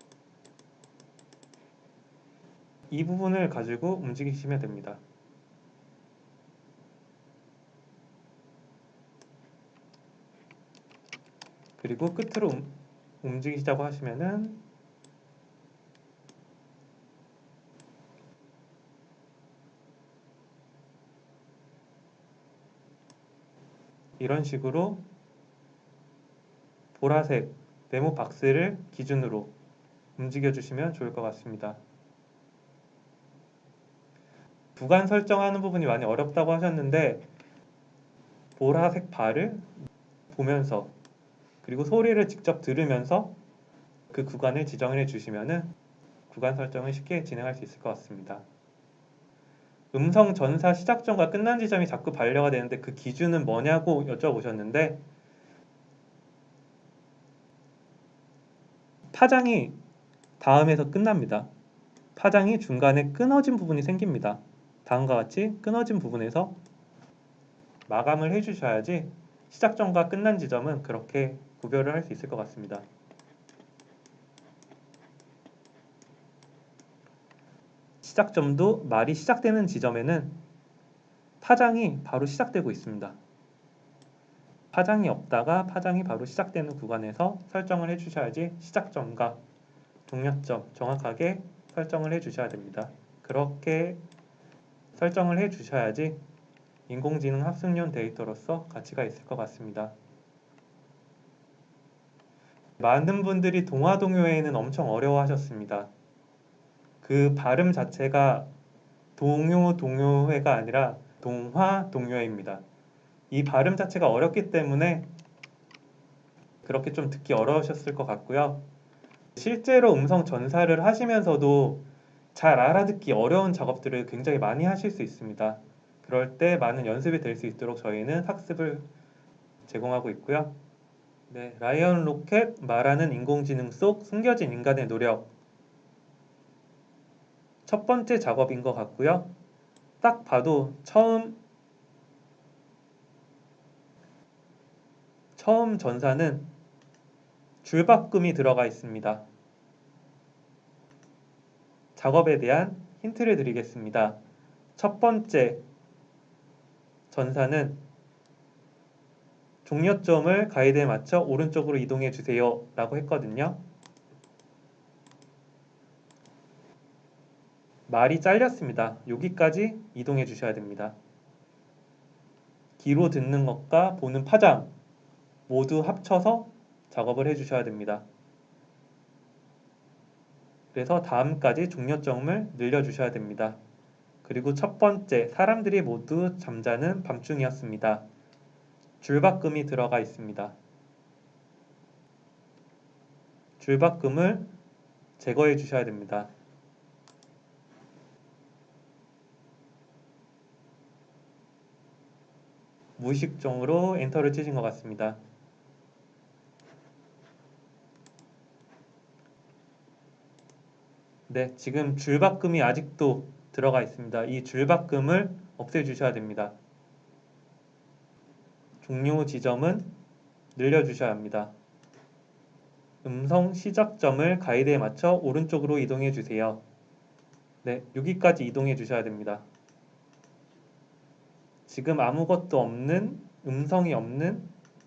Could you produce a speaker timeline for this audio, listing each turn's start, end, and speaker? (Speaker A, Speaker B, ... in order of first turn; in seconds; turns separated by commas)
Speaker A: 2.9-5.0, Speaker A: 11.8-14.6, Speaker A: 24.2-25.1, Speaker A: 26.9-29.5, Speaker A: 30.2-31.8, Speaker A: 34.8-37.3, Speaker A: 38.5-39.7, Speaker A: 40.3-40.9, Speaker A: 41.6-43.4, Speaker A: 44.1-45.7, Speaker A: 46.3-48.5, Speaker A: 49.9-55.0, Speaker A: 59.1-59.8, Speaker A: 60.4-61.5, Speaker A: 62.2-66.6, Speaker A: 67.9-72.9, Speaker A: 78.0-80.4, Speaker A: 81.4-83.2, Speaker A: 84.7-89.4, Speaker A: 90.1-94.0, Speaker A: 94.9-96.2, Speaker A: 96.9-100.0, Speaker A: 102.8-105.9, Speaker A: 107.0-108.5, Speaker A: 109.2-112.6, Speaker A: 113.3-115.1, Speaker A: 116.6-118.7, Speaker A: 119.4-128.9, Speaker A: 129.6-130.6, Speaker A: 131.3-135.3, Speaker A: 137.7-139.3, Speaker A: 140.0-141.4, Speaker A: 145.4-146.5, Speaker A: 147.6-149.2, Speaker A: 152.0-154.2, Speaker A: 154.8-155.6, Speaker A: 157.1-157.8, Speaker A: 159.6-163.6, Speaker A: 167.9-171.0, Speaker A: 172.8-174.7, Speaker A: 175.5-178.1, Speaker A: 180.7-183.6, Speaker A: 184.2-188.1, Speaker A: 189.0-190.6, Speaker A: 193.6-194.5, Speaker A: 195.2-196.3, Speaker A: 203.0-205.2, Speaker A: 211.3-216.6, Speaker A: 218.8-219.9, Speaker A: 220.6-221.5, Speaker A: 223.0-226.6, Speaker A: 227.6-229.5, Speaker A: 231.7-234.5